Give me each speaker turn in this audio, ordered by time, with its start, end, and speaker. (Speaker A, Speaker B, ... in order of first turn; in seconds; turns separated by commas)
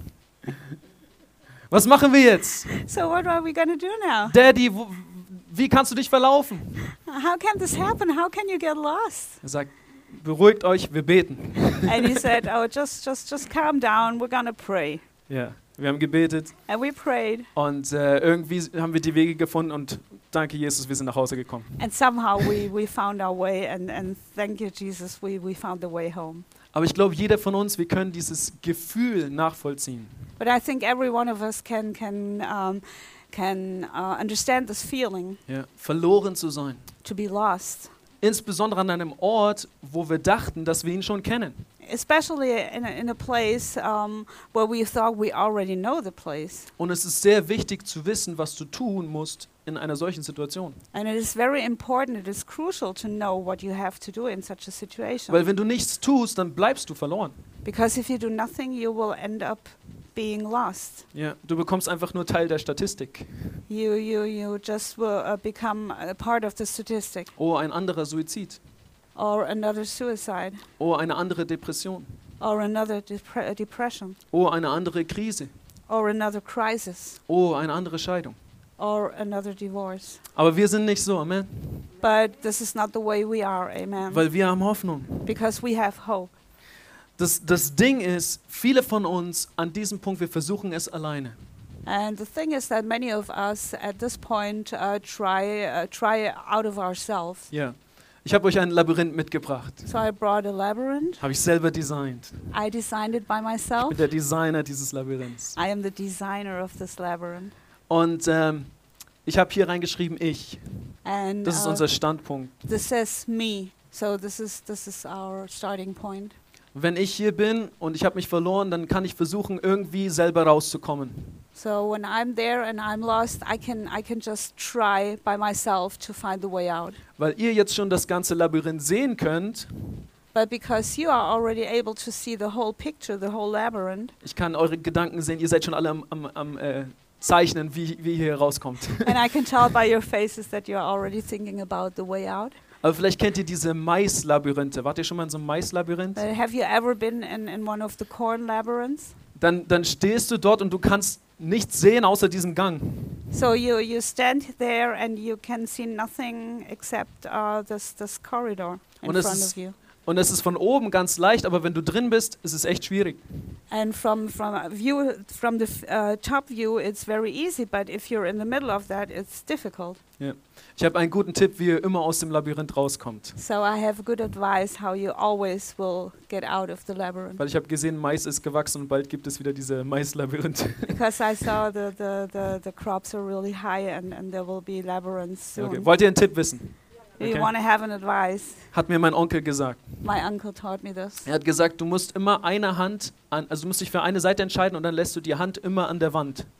Speaker A: 1.7-2.8, Speaker B: 2.7-4.3, Speaker A: 4.3-6.9, Speaker B: 7.0-9.4, Speaker A: 9.4-12.1, Speaker B: 11.8-15.0, Speaker A: 15.3-16.6, Speaker B: 16.7-17.5, Speaker A: 17.5-21.8, Speaker B: 21.8-26.5, Speaker A: 26.7-30.2, Speaker B: 30.4-35.4, Speaker A: 35.5-36.9, Speaker B: 37.0-37.9, Speaker A: 38.2-41.6, Speaker B: 41.8-46.7, Speaker A: 46.8-50.8, Speaker B: 50.9-55.4, Speaker A: 55.3-57.4, Speaker B: 57.6-61.0, Speaker A: 61.1-63.6, Speaker B: 63.7-67.3, Speaker A: 67.3-68.6, Speaker B: 69.1-70.6, Speaker A: 70.8-72.1, Speaker B: 72.4-74.2, Speaker A: 74.3-75.5, Speaker B: 75.9-77.2, Speaker A: 77.3-78.4, Speaker B: 78.8-80.2, Speaker A: 80.3-81.9, Speaker B: 82.0-84.2, Speaker A: 84.1-85.3, Speaker B: 85.2-86.3, Speaker A: 87.2-91.3, Speaker B: 91.8-97.5, Speaker A: 97.5-99.9, Speaker B: 99.8-101.2, Speaker A: 101.2-102.5, Speaker B: 102.5-104.1, Speaker A: 103.8-105.6, Speaker B: 105.5-107.5, Speaker A: 107.9-112.5, Speaker B: 111.0-111.9, Speaker B: 112.6-116.3, Speaker A: 116.7-121.4, Speaker B: 121.5-127.0, Speaker A: 127.2-130.0, Speaker B: 130.3-134.1, Speaker A: 134.2-139.2, Speaker B: 139.0-142.6, Speaker A: 142.8-146.2, Speaker B: 146.2-149.1, Speaker A: 149.3-153.3, Speaker B: 153.3-159.7, Speaker A: 159.0-163.2, Speaker B: 163.7-170.0, Speaker A: 170.2-173.4, Speaker B: 173.4-177.4, Speaker A: 177.4-181.0, Speaker B: 180.9-185.9, Speaker A: 185.6-187.5, Speaker B: 187.2-188.7, Speaker A: 188.7-190.0, Speaker B: 190.0-191.3, Speaker A: 191.2-196.5